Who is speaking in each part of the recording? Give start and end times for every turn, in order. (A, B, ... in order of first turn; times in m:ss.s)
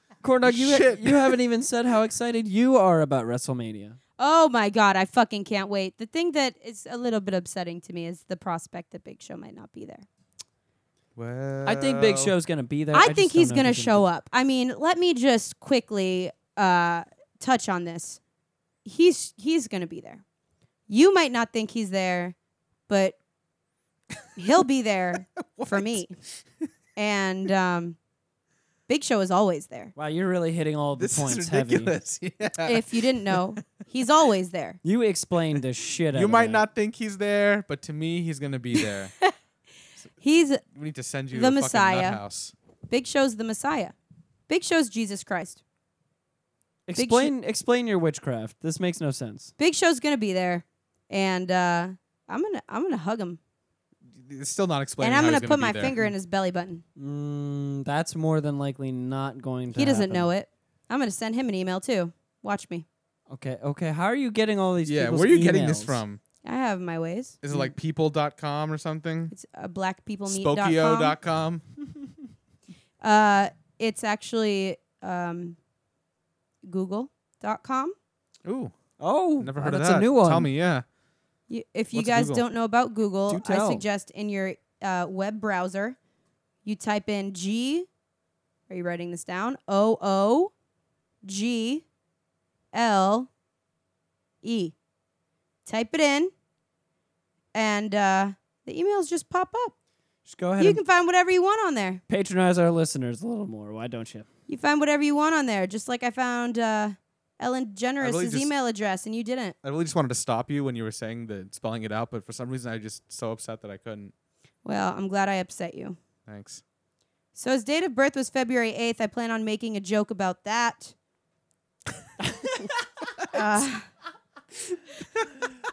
0:00.2-0:04.0 A
0:00.4-0:01.4 B
0:04.2-0:10.1 C
0:11.2-0:12.3 B
0:11.6-0:14.0 A
0:12.9-0:18.2 C
0:18.8-0:20.2 C
0:20.9-0:22.4 C
0:22.9-0:23.2 C
0:24.4-0:26.2 C
0:25.4-0:26.1 B
0:27.0-0:28.0 C
0:28.9-0:29.9 C
0:30.0-0:31.9 A
0:31.0-0:33.6 B
0:32.6-0:34.8 C
0:34.8-0:36.6 A
0:36.1-0:39.1 B
0:38.8-0:39.3 C
0:40.2-0:40.6 C
0:40.7-0:42.5 B
0:41.3-0:42.2 C
0:42.9-0:44.0 C
0:44.5-0:45.6 C
0:46.9-0:49.5 A
0:47.0-0:47.3 C
0:49.6-0:53.4 C
0:54.1-0:56.0 B
0:55.0-0:56.8 C
0:57.0-1:00.3 A
0:59.8-1:02.9 C
1:03.3-1:06.0 A
1:04.9-1:06.2 B
1:06.4-1:07.4 C
1:07.4-1:09.3 B
1:09.3-1:11.2 C
1:10.3-1:11.6 B
1:13.0-1:15.6 C
1:16.6-1:18.0 C
1:18.4-1:18.7 B
1:19.0-1:20.5 A
1:19.4-1:20.8 B
1:21.5-1:26.0 C
1:21.9-1:22.4 B
1:23.3-1:23.8 A
1:26.6-1:27.9 C
1:28.7-1:30.5 C
1:31.2-1:31.8 C
1:32.7-1:33.3 C
1:34.4-1:34.7 C
1:35.6-1:36.3 C
1:37.5-1:39.7 C
1:40.3-1:40.8 A
1:40.6-1:42.0 C
1:42.1-1:44.3 A
1:44.5-1:49.6 C
1:48.0-1:48.5 B
1:49.6-1:54.1 B
1:54.6-1:56.0 C
1:56.3-1:56.6 B
1:57.4-2:00.9 C
2:03.2-2:03.4 B
2:03.3-2:03.9 C
2:05.0-2:05.5 B